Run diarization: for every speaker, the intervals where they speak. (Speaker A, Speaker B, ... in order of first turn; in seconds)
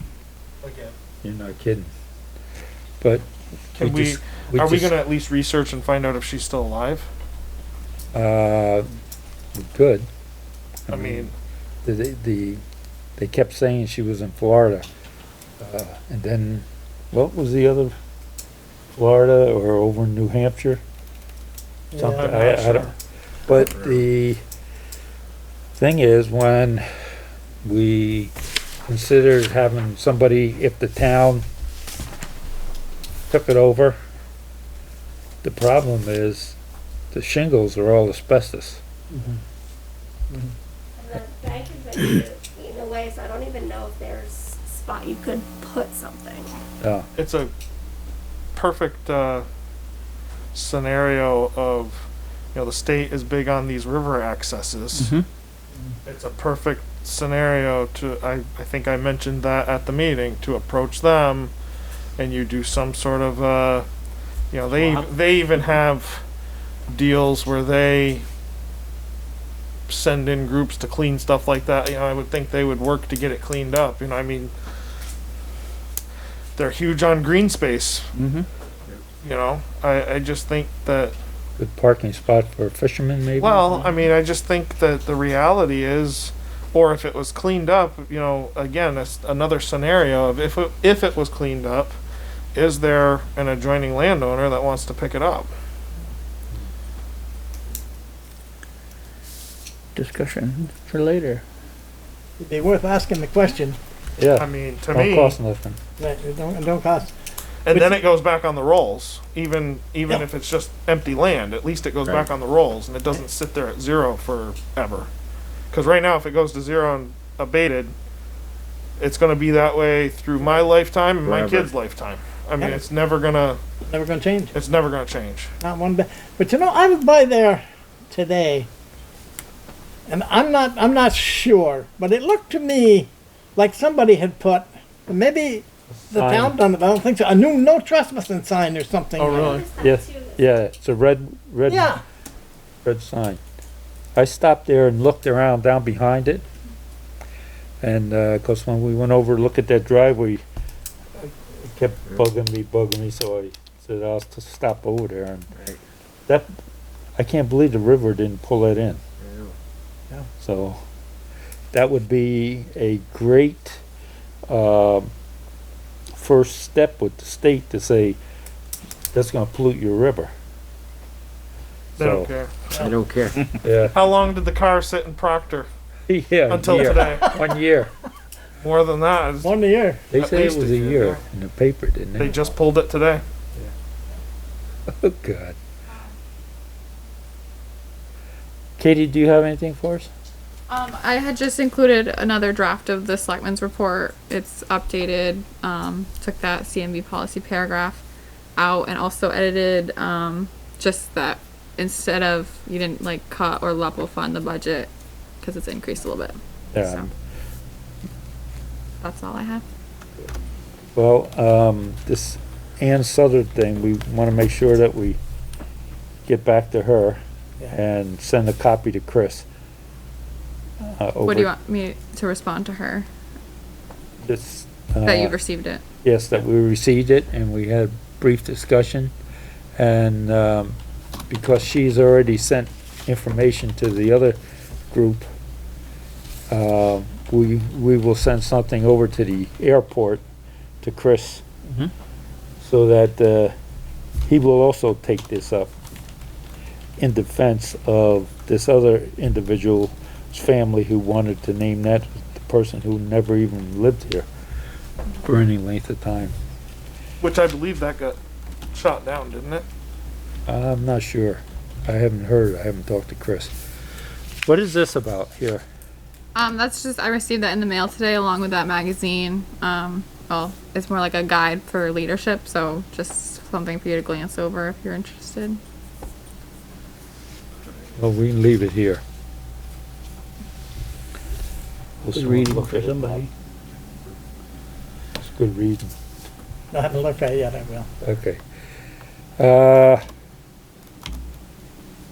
Speaker A: 0.6-0.9, 3.8-7.1, 10.9-11.3, 22.1-22.9, 47.1-47.5, 48.5-49.5, 50.5-55.2, 56.0-61.5, 62.2-63.9, 64.5-66.2, 66.9-68.2, 69.9-74.5, 76.5-78.1, 79.2-81.1, 83.4-92.0, 92.5-95.5, 104.3-105.4, 107.6-115.1, 115.7-117.9, 119.0-123.6, 124.5-125.5, 139.2-139.7, 172.0-172.8, 173.9-175.7, 176.5-177.3, 178.6-179.5, 180.1-181.2, 182.2-183.2, 257.2-258.2, 258.7-259.6
Speaker B: 1.2-1.9, 3.0-5.0, 8.1-8.9, 9.5-10.1, 10.9-11.3, 11.8-12.6, 13.2-14.9, 15.6-17.9, 18.9-20.8, 21.9-22.9, 23.5-24.4, 25.8-26.9, 27.6-28.3, 28.9-31.4, 33.3-34.0, 35.4-36.6, 37.1-38.8, 46.8-47.1, 81.6-83.8, 104.2-105.8, 135.9-136.5, 139.8-142.0, 142.8-143.4, 144.1-146.4, 147.8-150.4, 151.2-155.5, 156.3-156.5, 157.2-159.0, 160.4-160.8, 161.7-163.8, 164.5-165.1, 166.2-168.2, 169.1-170.3, 172.0-172.3, 173.6-174.0, 176.1-177.9, 180.1-182.5, 184.9-185.6, 188.8-190.1, 206.7-207.1, 210.9-215.2, 216.2-219.4, 220.8-221.5, 224.2-225.4, 226.0-229.1, 229.8-230.8, 231.3-234.4, 234.9-235.3, 236.5-240.2, 240.8-241.4, 242.6-243.5, 244.2-245.7, 247.0-254.3, 255.2-256.3, 260.5-263.5, 264.4-265.6, 277.9-279.0, 282.0-283.2, 285.2-285.9, 288.0-288.4, 289.4-290.0
Speaker C: 21.9-22.4, 102.4-103.8, 106.0-107.1, 123.9-124.5, 125.6-128.7, 130.1-139.6, 141.7-142.0, 179.4-180.0, 286.7-287.9
Speaker D: 23.6-24.0, 121.2-121.7, 159.2-159.5, 172.8-173.5
Speaker E: 41.0-46.5, 139.2-140.4
Speaker F: 54.9-55.2, 78.1-78.5, 99.9-101.4, 282.1-283.3
Speaker G: 190.7-198.0, 198.6-204.9, 205.4-207.1, 209.0-209.6, 221.2-223.1, 225.0-225.8, 266.3-275.6